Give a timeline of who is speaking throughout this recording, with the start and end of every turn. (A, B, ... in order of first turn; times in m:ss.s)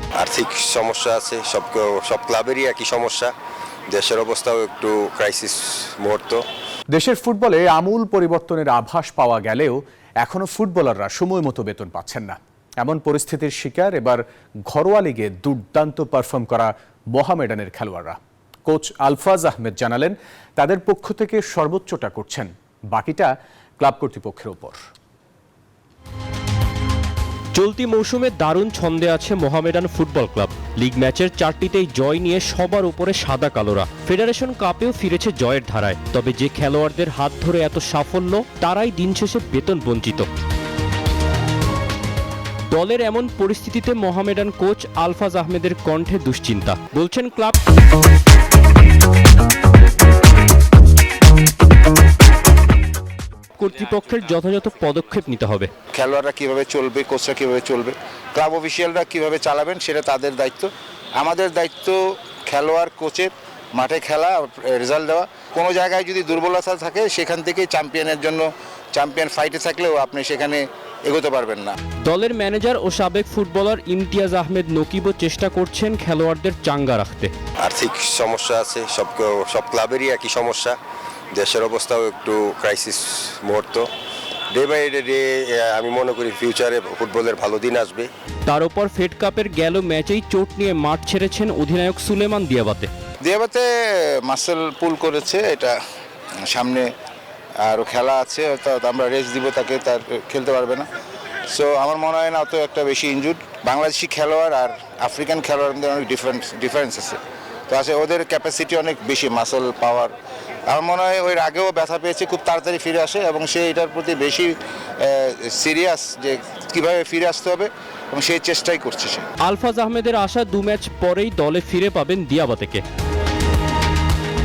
0:00.2-0:03.3 A
0:03.9-0:06.4 A
0:06.9-0:24.8 B
0:27.5-0:40.3 C
0:42.7-0:47.6 C
0:53.6-0:55.7 C
0:55.9-1:11.7 D
1:12.0-1:17.3 C
1:17.6-1:20.8 A
1:21.3-1:23.9 A
1:24.5-1:28.1 A
1:28.5-1:32.9 C
1:33.2-1:33.7 D
1:34.2-1:35.8 D
1:36.4-1:36.9 D
1:37.6-1:40.8 D
1:41.5-1:50.1 D
1:50.7-1:59.3 D
1:59.4-2:02.8 C